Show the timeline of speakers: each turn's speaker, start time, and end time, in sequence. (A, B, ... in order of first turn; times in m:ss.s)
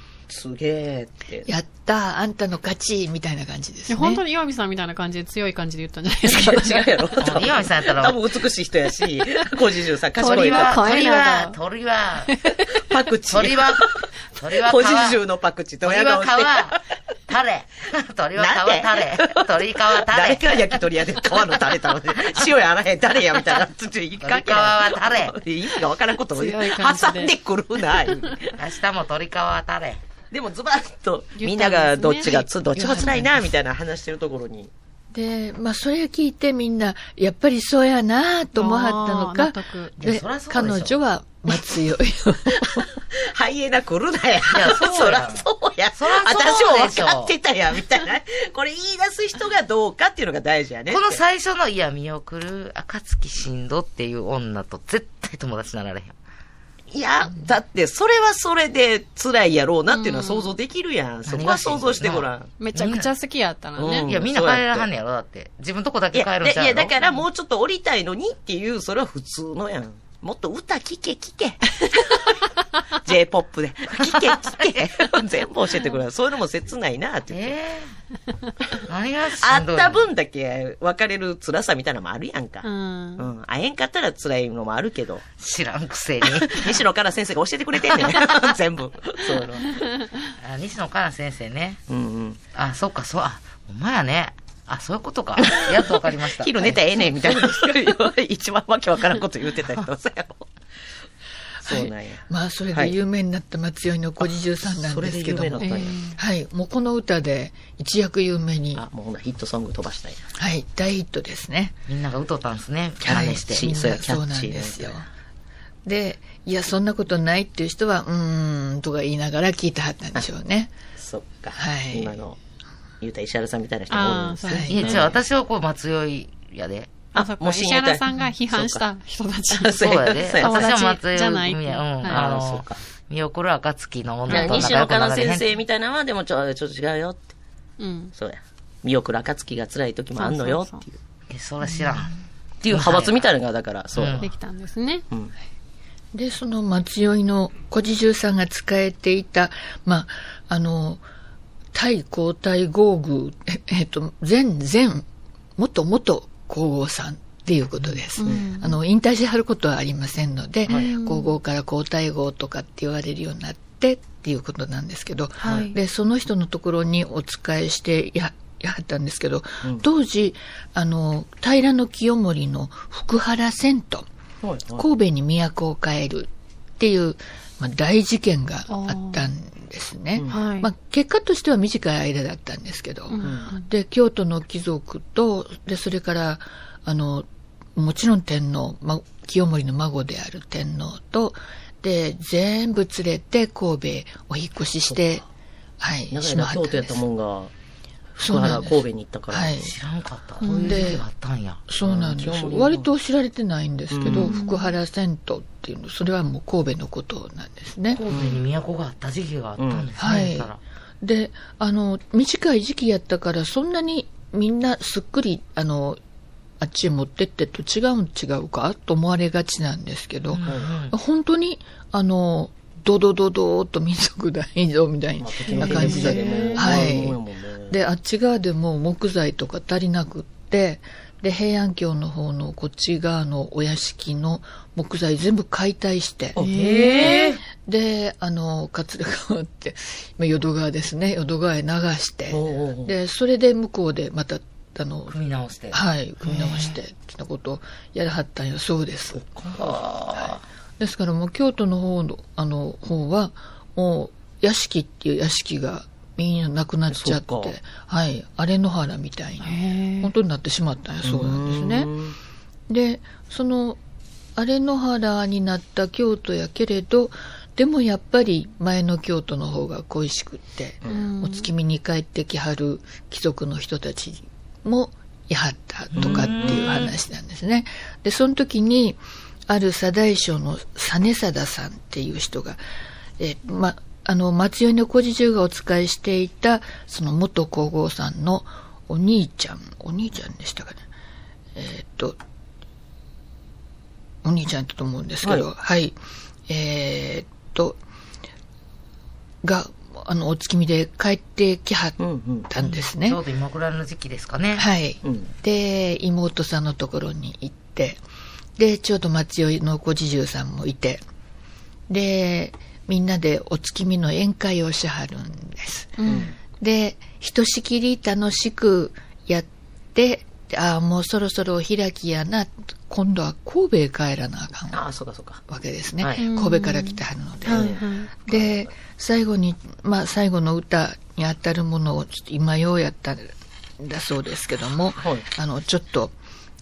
0:00.3-0:01.5 A
0:01.4-0:04.2 B
0:03.9-0:07.0 C
0:06.2-0:11.0 A
0:07.2-0:08.2 D
0:10.2-0:11.6 C
0:10.2-0:12.3 D
0:12.3-0:12.7 C
0:12.7-0:16.8 A
0:13.3-0:15.2 D
0:15.8-0:20.8 D
0:18.4-0:28.6 A
0:24.2-0:25.4 D
0:26.3-0:27.3 C
0:28.6-0:30.0 D
0:30.3-0:34.7 A
0:31.4-0:32.5 C
0:32.8-0:33.2 B
0:35.1-0:42.9 B
0:38.5-0:39.9 C
0:40.0-0:41.0 D
0:42.5-0:51.2 A
0:44.5-0:47.3 D
0:50.9-0:56.2 D
0:56.9-1:02.5 A
0:59.9-1:00.5 C
1:01.2-1:03.1 D
1:02.6-1:04.1 C
1:03.8-1:04.9 A
1:04.0-1:06.9 D
1:06.1-1:12.3 A
1:13.0-1:17.6 A
1:14.1-1:14.9 D
1:17.3-1:17.9 D
1:18.8-1:20.1 D
1:19.4-1:25.2 A
1:22.6-1:23.3 C
1:25.4-1:26.8 D
1:26.2-1:29.8 A
1:27.9-1:28.4 D
1:30.4-1:31.8 D
1:31.9-1:32.4 A
1:32.5-1:36.8 D
1:35.4-1:40.5 A
1:41.6-1:42.9 A
1:41.6-1:48.8 B
1:44.2-1:46.0 A
1:45.6-1:46.2 C
1:48.8-1:50.2 A
1:50.4-1:51.7 B
1:51.9-1:53.7 D
1:53.0-1:55.1 B
1:53.1-1:55.0 A
1:55.8-2:00.7 B
2:01.0-2:02.4 A
2:01.6-2:02.2 B
2:03.0-2:05.2 A
2:03.9-2:05.1 C
2:04.4-2:05.0 B
2:04.7-2:07.0 D
2:07.1-2:08.8 A
2:07.1-2:12.2 C
2:09.5-2:10.8 A
2:09.8-2:15.6 D
2:12.0-2:12.8 A
2:14.3-2:14.7 C
2:14.3-2:17.3 A
2:17.8-2:18.1 C
2:18.1-2:21.0 A
2:20.2-2:20.8 C
2:21.3-2:23.2 D
2:21.7-2:22.1 B
2:22.7-2:24.3 A
2:23.9-2:24.3 D
2:24.2-2:25.0 C
2:26.1-2:31.0 B
2:31.7-2:54.1 B
2:37.8-2:38.4 A
2:38.2-2:38.8 C
2:40.7-2:40.9 A
2:40.7-2:41.3 C
2:45.4-2:45.8 C
2:45.4-2:45.7 A
2:54.4-2:54.8 A
2:54.7-3:15.2 B
2:58.7-2:59.2 C
3:00.2-3:00.4 A
3:00.3-3:00.7 C
3:03.1-3:03.7 C
3:03.2-3:03.5 A
3:14.9-3:15.2 A
3:15.8-3:17.0 B
3:16.1-3:17.5 A
3:18.2-3:19.6 A
3:18.2-3:19.7 B
3:19.6-3:21.6 D
3:20.4-3:20.9 C
3:20.6-3:21.0 B
3:21.7-3:28.0 B
3:21.8-3:22.9 A
3:23.9-3:24.4 A
3:24.2-3:24.8 C
3:27.9-3:30.6 D
3:28.1-3:28.4 A
3:29.6-3:29.9 A
3:30.0-3:36.0 B
3:36.6-4:05.2 B
3:40.3-3:41.0 D
3:45.2-3:47.8 A
3:45.5-3:46.8 C
3:56.4-3:57.1 C
3:56.5-3:57.4 D
4:02.3-4:02.9 A
4:05.1-4:06.8 D
4:05.7-4:09.2 B
4:09.1-4:09.8 A
4:09.6-4:10.4 D
4:10.1-4:21.9 B
4:16.9-4:17.5 A
4:19.4-4:20.1 C
4:21.0-4:22.2 A
4:22.7-4:23.8 B
4:24.4-4:42.6 B
4:30.8-4:31.5 C
4:35.9-4:36.8 A
4:36.0-4:36.9 D
4:43.2-4:50.8 B
4:51.5-4:52.2 B
4:54.2-4:57.8 B
4:59.4-5:02.0 B
5:02.0-5:02.5 A
5:02.5-5:03.2 B
5:02.6-5:04.6 D
5:04.5-5:08.0 B
5:05.0-5:05.3 A
5:08.6-5:11.0 B
5:11.9-5:24.8 B
5:16.0-5:16.3 C
5:16.0-5:16.3 A
5:24.7-5:25.4 A
5:25.5-5:36.1 B
5:26.2-5:28.1 C
5:27.4-5:28.7 A
5:35.0-5:35.2 A